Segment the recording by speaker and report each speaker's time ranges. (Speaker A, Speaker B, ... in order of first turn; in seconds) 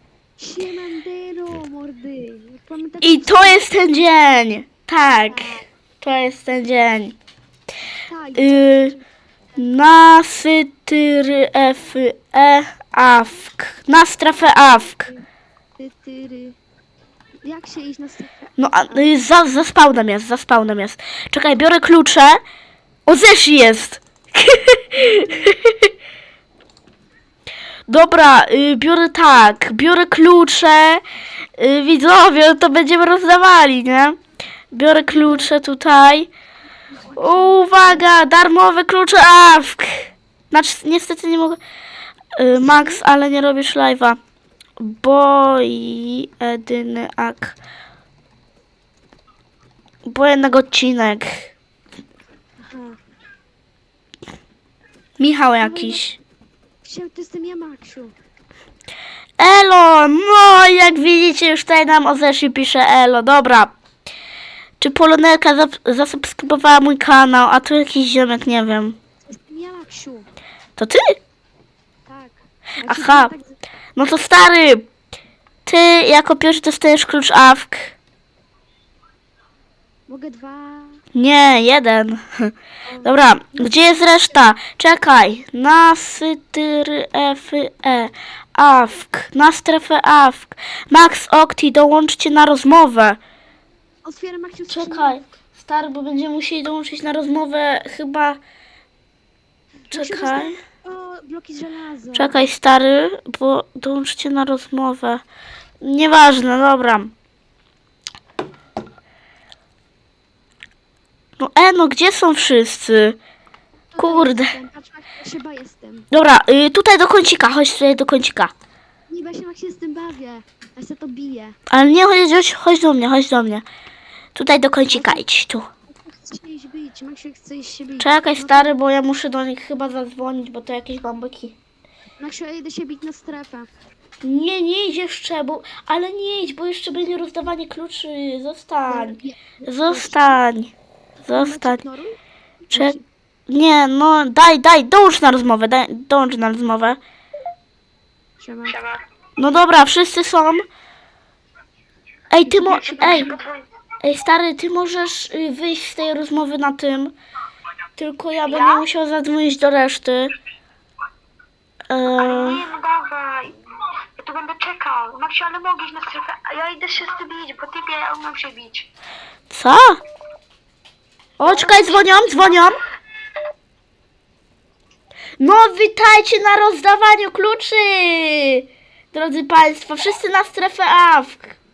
Speaker A: 0.4-3.7, 5.3-5.7, 8.1-9.0, 14.6-15.2, 15.8-16.6, 17.4-19.1, 25.0-25.5, 36.9-38.0, 42.6-43.0, 52.6-53.0, 55.6-56.0, 56.8-58.1, 69.2-70.3, 72.1-73.5, 80.1-81.0, 82.9-84.1, 94.0-95.2, 99.9-102.4, 113.9-116.1, 119.1-121.6, 124.9-125.2, 125.9-128.7, 132.2-133.7, 138.9-140.4, 141.2-143.0, 148.4-148.8, 152.5-153.2
Speaker B: 3.0-7.2, 8.3-8.9, 9.6-15.1, 18.6-22.4, 23.1-25.7, 27.9-31.0, 31.6-34.2, 34.7-36.3, 37.2-41.6, 42.4-44.2, 44.8-47.6, 50.0-51.5, 55.2-56.2, 59.4-63.7, 64.8-69.0, 70.8-71.2, 72.8-73.3, 74.0-74.9, 75.7-77.9, 81.2-93.2, 94.7-98.4, 99.9-100.6, 102.1-105.2, 105.8-107.1, 111.4-113.2, 114.0-114.5, 116.1-118.5, 121.7-123.7, 124.3-125.7, 128.0-131.6, 134.2-140.7, 141.3-141.8, 143.5-147.0, 149.4-150.6, 152.3-153.3, 154.0-157.2, 158.0-160.3, 161.9-162.7, 169.5-170.0, 171.4-172.8, 175.4-181.5
Speaker C: 148.7-149.0, 152.8-153.7, 158.5-158.8, 162.2-163.5, 164.2-168.9, 171.5-172.5